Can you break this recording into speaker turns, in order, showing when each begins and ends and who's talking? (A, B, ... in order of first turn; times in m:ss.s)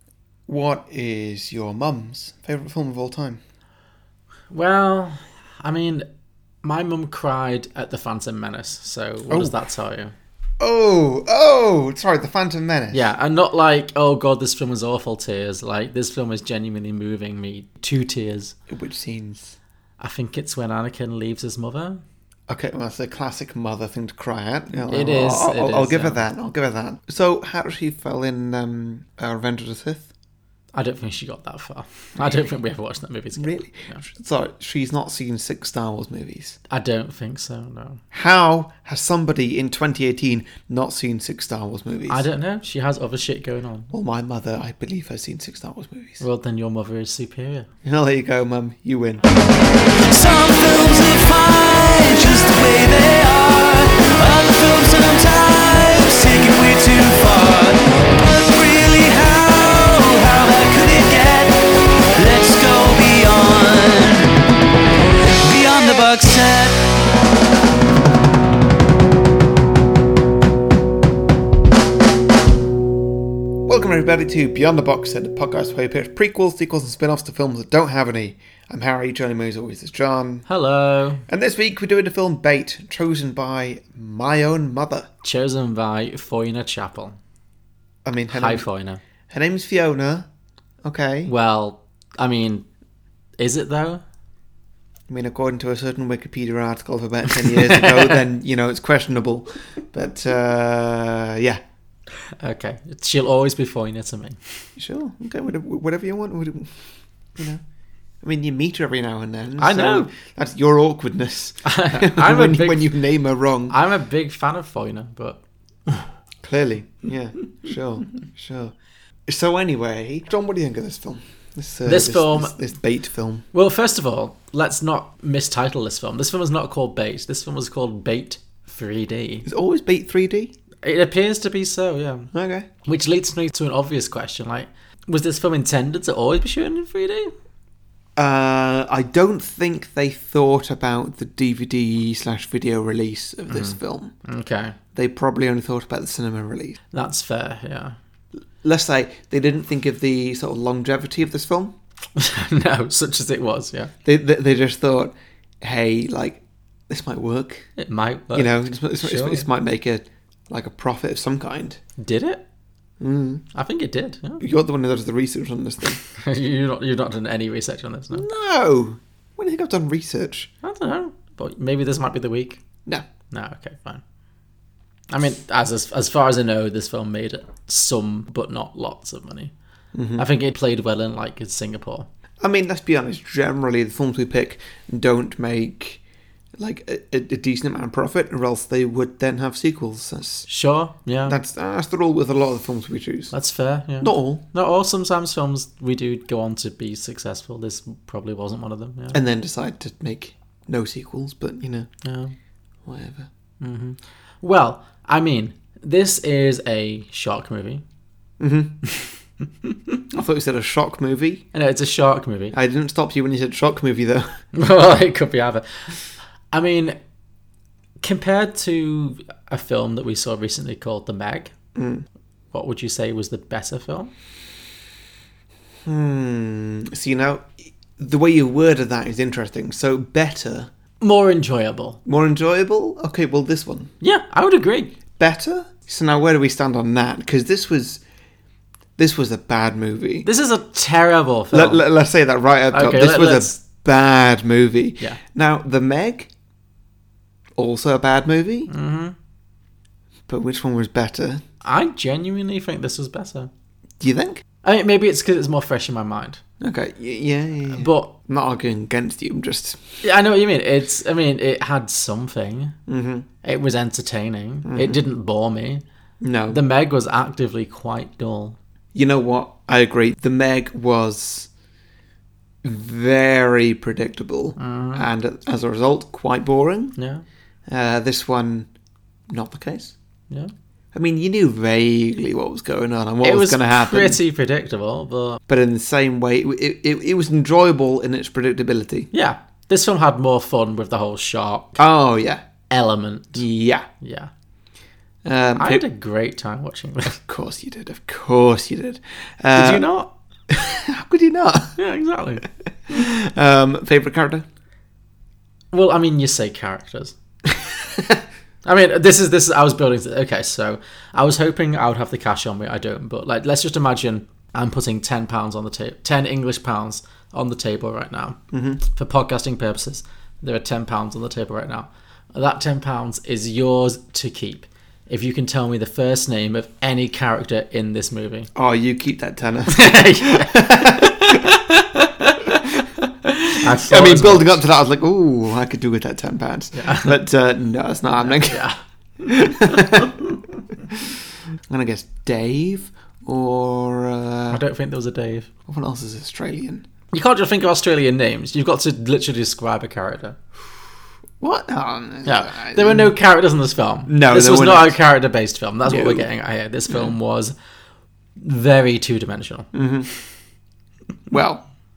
0:00.5-0:03.4 A
0:04.5-0:06.0 B
0:06.6-0:10.1 B
0:10.6-0:13.0 A
0:12.9-0:18.5 B
0:18.7-0:19.6 A
0:20.0-0:22.0 B
0:22.5-0:30.1 A
0:24.9-0:26.2 B
0:30.7-0:34.0 B
0:33.4-0:36.6 A
0:36.7-0:38.0 B
0:38.1-0:42.2 A
0:42.1-0:43.9 B
0:43.9-0:46.2 A
0:46.2-0:47.7 B
0:47.8-0:49.3 A
0:50.1-1:01.6 C
1:02.2-1:04.3 C
1:05.4-1:06.8 C
1:13.7-1:20.5 A
1:20.5-1:21.2 B
1:21.3-1:25.1 A
1:25.2-1:27.2 B
1:28.0-1:28.6 A
1:28.3-1:29.0 B
1:29.3-1:30.3 A
1:30.8-1:31.3 A
1:31.2-1:32.6 B
1:33.4-1:34.0 B
1:35.1-1:41.6 A
1:37.7-1:38.1 B
1:42.4-1:44.4 B
1:44.8-1:46.7 A
1:48.2-1:53.7 A
1:49.6-1:50.1 B
1:51.6-1:52.9 B
1:53.7-1:56.1 B
1:56.4-1:58.7 A
1:59.3-2:03.4 A
2:01.8-2:02.6 B
2:03.5-2:09.4 B
2:09.4-2:10.5 A
2:10.8-2:12.3 B
2:12.3-2:12.7 A
2:12.8-2:17.3 B
2:18.2-2:24.1 A
2:23.5-2:24.8 B
2:24.9-2:26.8 A
2:26.9-2:28.0 B
2:28.6-2:31.7 A
2:32.2-2:33.9 B
2:34.0-2:37.6 A
2:37.8-2:39.5 B
2:38.3-2:41.8 A
2:42.0-2:42.4 B
2:43.0-2:43.4 A
2:43.5-2:44.4 B
2:44.4-2:46.0 A
2:46.1-2:48.2 B
2:48.1-2:50.5 A
2:50.6-2:52.6 B
2:53.3-2:54.0 B
2:55.1-2:59.5 B
2:59.9-3:00.2 A
3:00.2-3:02.1 B
3:02.4-3:06.0 A
3:06.6-3:10.5 A
3:10.5-3:11.4 B
3:11.2-3:13.3 A
3:13.3-3:19.2 B
3:14.0-3:14.4 A
3:19.1-3:21.9 A
3:22.0-3:22.3 B
3:22.8-3:23.3 A
3:23.6-3:27.8 B
3:28.4-3:28.8 A
3:30.1-3:31.4 A
3:31.5-3:32.5 B
3:32.5-3:34.4 A
3:34.5-3:37.0 B
3:38.0-3:41.5 B
3:41.8-3:42.0 A
3:42.5-3:44.1 B
3:45.8-3:50.7 A
3:51.0-3:52.0 B
3:52.0-3:53.9 A
3:54.0-3:54.9 B
3:55.2-3:58.0 A
3:59.0-4:00.3 A
4:00.2-4:01.8 B
4:01.5-4:06.3 A
4:02.7-4:03.6 B
4:07.6-4:08.7 A
4:08.7-4:09.2 B
4:10.3-4:11.4 A
4:11.6-4:13.5 B
4:14.0-4:14.4 A
4:14.6-4:16.4 B
4:16.6-4:19.8 A
4:17.7-4:18.1 B
4:20.0-4:22.7 B
4:22.9-4:23.3 A
4:23.4-4:25.8 B
4:24.7-4:25.0 A
4:26.2-4:26.6 A
4:26.5-4:28.6 B
4:28.9-4:31.5 A
4:32.6-4:36.9 A
4:34.6-4:35.1 B
4:37.0-4:37.2 B
4:37.7-4:38.7 A
4:39.3-4:39.9 A
4:40.9-4:44.2 A
4:43.2-4:45.4 B
4:45.5-4:49.1 A
4:49.1-4:51.8 B
4:51.8-4:52.4 A
4:52.7-4:53.4 B
4:53.3-4:53.9 A
4:54.0-4:54.3 B
4:55.2-4:55.8 A
4:55.6-4:57.2 B
4:57.3-4:59.9 A
4:59.6-5:00.1 B
5:00.5-5:01.8 A
5:01.8-5:02.5 B
5:02.9-5:04.4 A
5:05.7-5:07.1 B
5:08.6-5:28.5 B
5:18.5-5:18.8 A
5:28.5-5:31.5 A
5:29.7-5:34.6 B
5:33.8-5:38.6 A
5:36.7-5:37.2 B
5:38.2-5:38.8 B
5:39.2-5:40.2 A
5:39.5-5:40.1 B
5:41.7-5:44.6 A
5:44.5-5:45.5 B
5:45.7-5:46.8 A
5:47.1-5:50.4 B
5:51.4-5:53.1 A
5:52.2-5:57.5 B
5:54.1-5:54.9 A
5:55.8-5:56.3 A
5:56.9-5:57.1 A
5:58.4-5:59.7 B
5:59.7-6:00.1 A
6:01.3-6:01.6 A